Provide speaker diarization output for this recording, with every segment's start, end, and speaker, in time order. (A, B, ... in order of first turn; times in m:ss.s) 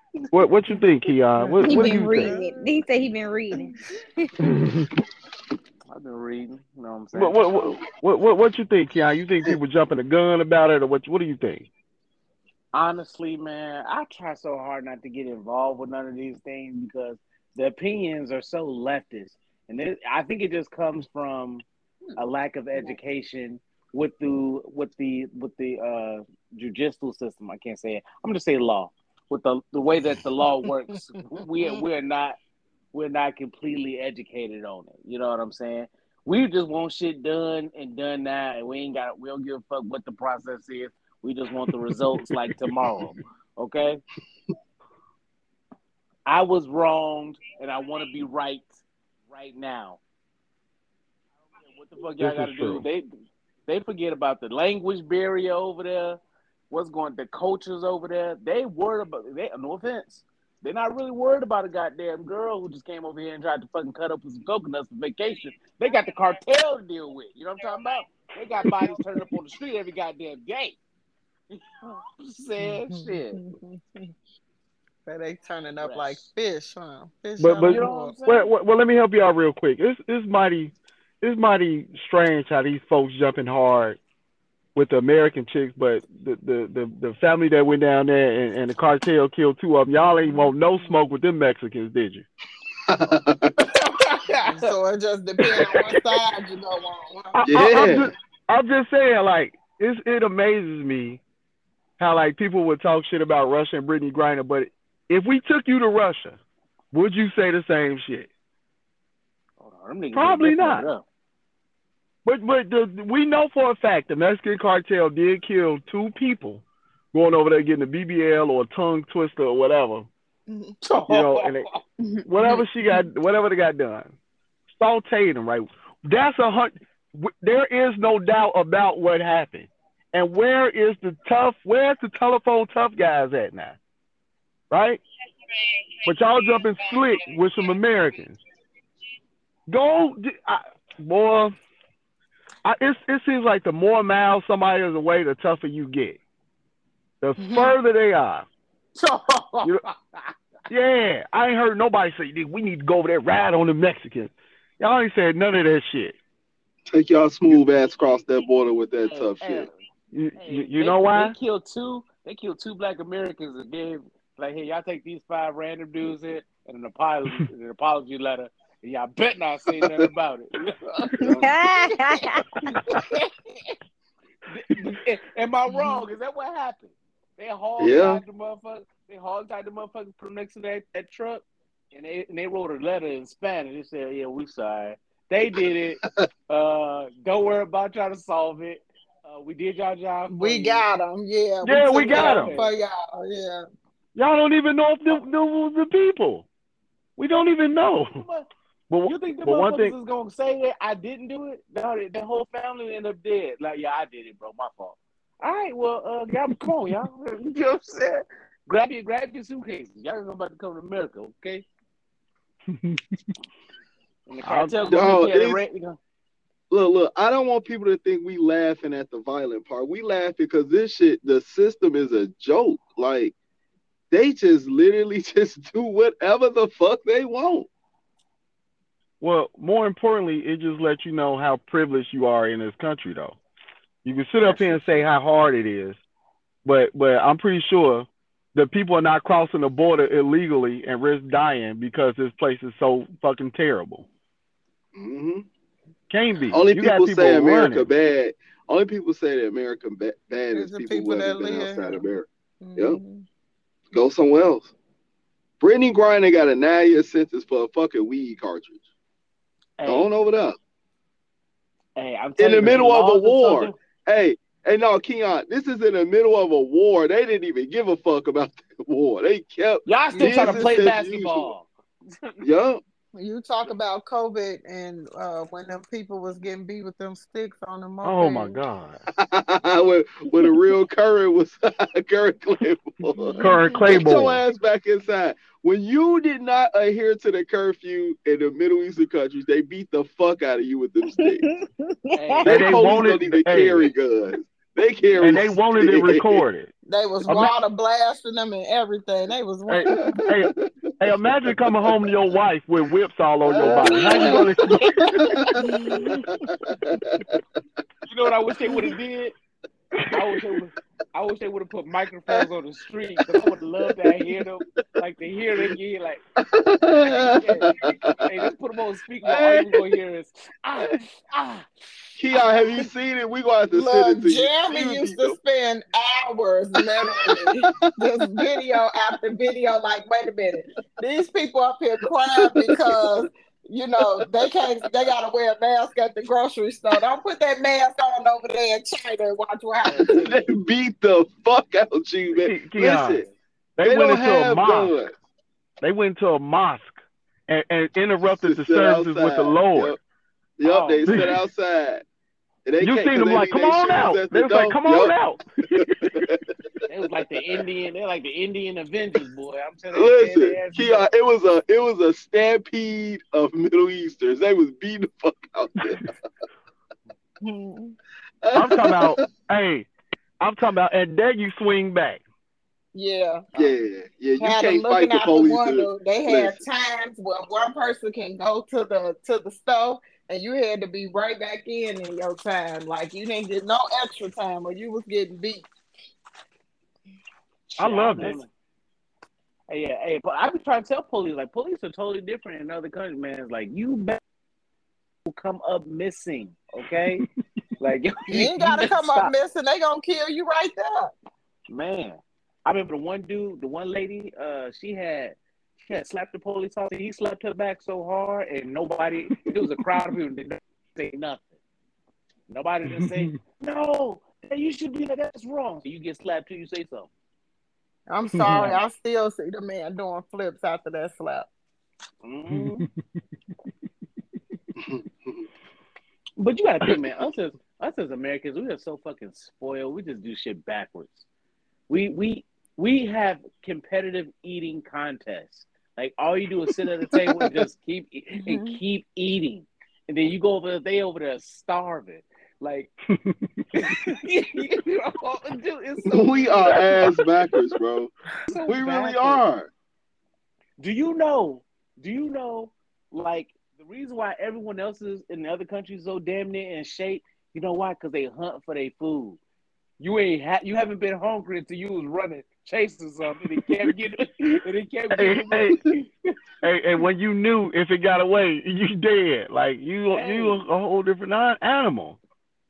0:00.3-0:02.4 A
0:01.4-0:02.6 B
0:01.6-0:04.3 C
0:04.4-0:04.9 A
0:05.9-0:07.8 D
0:07.1-0:11.7 A
0:12.7-0:21.6 D
0:22.2-0:32.4 D
0:32.9-0:44.0 D
0:46.3-0:48.7 D
0:49.3-0:50.0 D
0:51.6-0:53.1 D
0:52.2-0:52.8 A
0:53.7-1:10.8 D
1:11.5-1:13.4 D
1:12.6-1:14.1 B
1:15.1-1:18.2 B
1:15.8-1:16.2 D
1:17.4-1:24.0 A
1:17.7-1:18.5 D
1:24.8-1:32.3 A
1:30.3-1:30.5 B
1:32.9-1:33.7 E
1:33.8-1:34.7 D
1:34.4-1:37.9 B
1:37.3-1:41.2 A
1:37.5-1:38.1 E
1:42.0-1:46.4 A
1:46.9-1:48.3 A
1:49.6-1:51.0 D
1:50.1-1:50.9 A
1:52.2-2:00.1 A
2:00.5-2:00.8 B
2:00.8-2:01.8 D
2:01.1-2:01.7 A
2:02.0-2:02.5 C
2:02.2-2:04.1 A
2:04.8-2:13.8 A
2:14.7-2:15.0 A
2:16.0-2:18.4 A
2:19.7-2:21.5 A
2:22.6-2:26.2 A
2:27.2-2:28.5 A
2:27.4-2:27.8 B
2:29.0-2:30.3 D
2:30.7-2:36.2 A
2:36.9-2:39.7 E
2:39.1-2:39.8 D
2:40.1-2:41.4 A
2:40.4-2:51.1 D
2:51.2-2:52.0 E
2:51.2-2:52.5 C
2:52.9-2:53.3 D
2:54.5-3:10.8 D
2:55.7-2:56.0 B
2:57.8-2:58.2 E
3:10.3-3:13.6 B
3:11.6-3:12.6 A
3:12.0-3:12.7 D
3:14.2-3:16.5 A
3:17.2-3:18.2 A
3:18.1-3:18.5 D
3:18.9-3:20.0 A
3:19.1-3:31.7 D
3:32.7-3:33.0 A
3:34.3-3:36.0 D
3:34.4-3:35.1 A
3:34.9-3:35.6 E
3:36.7-3:43.3 E
3:44.1-3:47.7 E
3:49.2-3:53.4 A
3:54.0-3:56.0 A
3:54.4-3:55.0 D
3:56.6-4:04.1 A
4:05.0-4:05.5 E
4:06.1-4:07.9 A
4:06.5-4:13.0 E
4:10.5-4:12.0 B
4:12.6-4:13.2 B
4:13.9-4:14.7 E
4:15.6-4:18.8 E
4:19.8-4:20.1 D
4:19.9-4:20.6 E
4:22.0-4:23.8 D
4:22.4-4:31.5 E
4:29.9-4:32.4 D
4:30.1-4:30.8 B
4:32.4-4:32.8 E
4:33.1-4:38.6 B
4:38.0-4:39.0 A
4:39.2-4:51.5 E
4:43.1-4:43.8 B
4:43.4-4:44.4 A
4:51.2-4:52.4 C
4:52.1-4:52.9 D
4:52.4-4:56.4 E
4:52.4-4:53.9 A
4:55.2-4:56.7 A
4:56.9-5:00.2 B
4:57.2-4:57.6 A
4:59.7-5:05.1 A
4:59.9-5:00.7 E
5:01.7-5:02.0 E
5:03.5-5:05.8 E
5:03.6-5:04.5 B
5:03.8-5:04.2 D
5:05.6-5:06.3 B
5:06.7-5:07.4 E
5:08.1-5:09.4 D
5:10.1-5:16.2 D
5:13.4-5:14.4 E
5:16.4-5:18.3 E
5:17.0-5:21.7 D
5:19.2-5:19.9 E
5:22.2-5:25.4 E
5:23.7-5:40.4 B
5:26.8-5:28.8 E
5:32.3-5:33.1 E
5:34.0-5:34.8 E
5:39.9-5:43.3 E
5:42.4-5:43.2 A
5:43.8-5:44.9 A
5:43.8-5:45.2 E
5:45.8-5:47.0 A
5:47.5-5:50.0 A
5:48.3-5:50.0 E
5:50.6-5:52.0 E
5:50.6-5:51.3 D
5:51.1-5:51.4 A
5:52.6-5:55.2 E
5:52.8-5:56.3 A
5:56.0-5:57.6 E
5:56.9-6:01.1 D
5:59.9-6:06.1 E
6:07.4-6:08.0 B
6:08.4-6:09.3 E
6:08.5-6:09.9 A
6:10.4-6:12.2 A
6:12.9-6:13.5 B
6:13.6-6:16.6 E
6:14.4-6:25.7 B
6:27.8-6:28.5 D
6:27.8-6:28.4 A
6:29.7-6:34.2 D
6:35.2-6:37.2 D
6:37.8-6:39.3 D
6:38.3-6:41.1 B
6:41.7-6:51.6 D
6:52.5-6:57.1 D
6:52.9-6:53.4 A
6:58.1-7:01.5 B
6:58.3-6:58.7 A
6:58.4-6:58.8 D
7:02.2-7:02.9 D
7:02.5-7:02.9 A
7:04.8-7:05.5 E
7:06.4-7:11.2 D
7:11.9-7:22.9 D
7:17.1-7:17.6 E
7:18.4-7:18.8 B
7:23.1-7:23.6 A
7:23.7-7:27.1 D
7:26.1-7:28.1 E
7:28.5-7:29.4 D
7:28.6-7:29.7 E
7:30.8-7:39.4 D
7:40.0-7:46.3 D
7:45.1-7:45.8 A
7:46.6-7:52.2 A
7:50.1-7:50.6 D